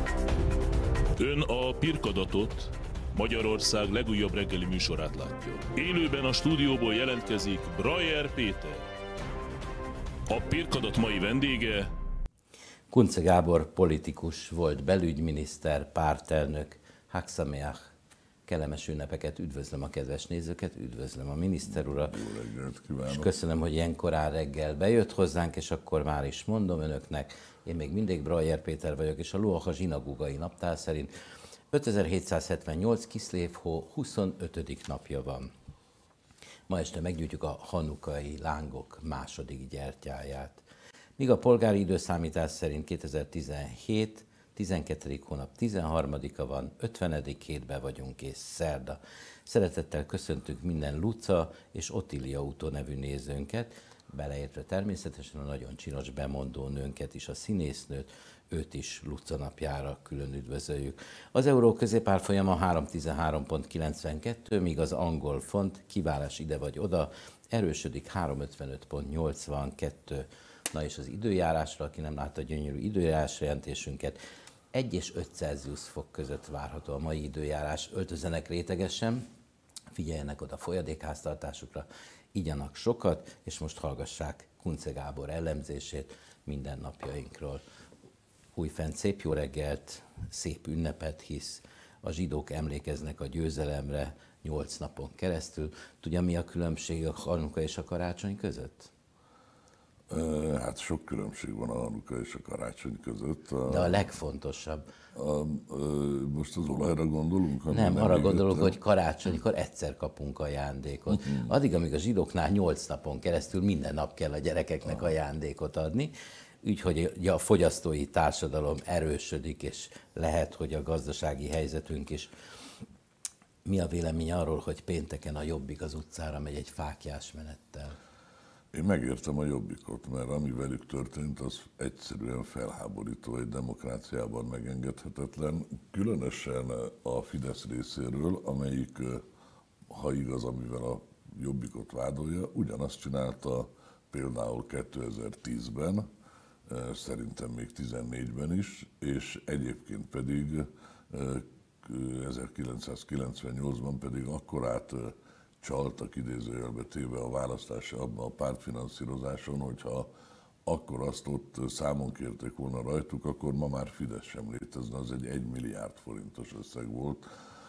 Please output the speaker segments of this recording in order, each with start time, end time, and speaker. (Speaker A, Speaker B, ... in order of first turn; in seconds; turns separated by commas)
Speaker A: 1.2-8.8, Speaker A: 10.3-11.9, Speaker B: 12.9-17.9, Speaker B: 18.4-22.2, Speaker C: 21.8-23.3, Speaker B: 23.1-31.1, Speaker B: 31.7-35.5, Speaker B: 36.7-40.6, Speaker B: 41.2-74.2, Speaker B: 74.7-79.2, Speaker B: 79.9-87.6, Speaker B: 88.5-98.9, Speaker C: 100.1-104.1, Speaker B: 103.6-104.8, Speaker C: 105.1-108.8, Speaker B: 107.7-122.3, Speaker C: 111.1-111.5, Speaker B: 123.6-128.0, Speaker C: 128.7-139.2, Speaker C: 139.9-146.1, Speaker C: 146.7-160.1, Speaker C: 160.6-167.2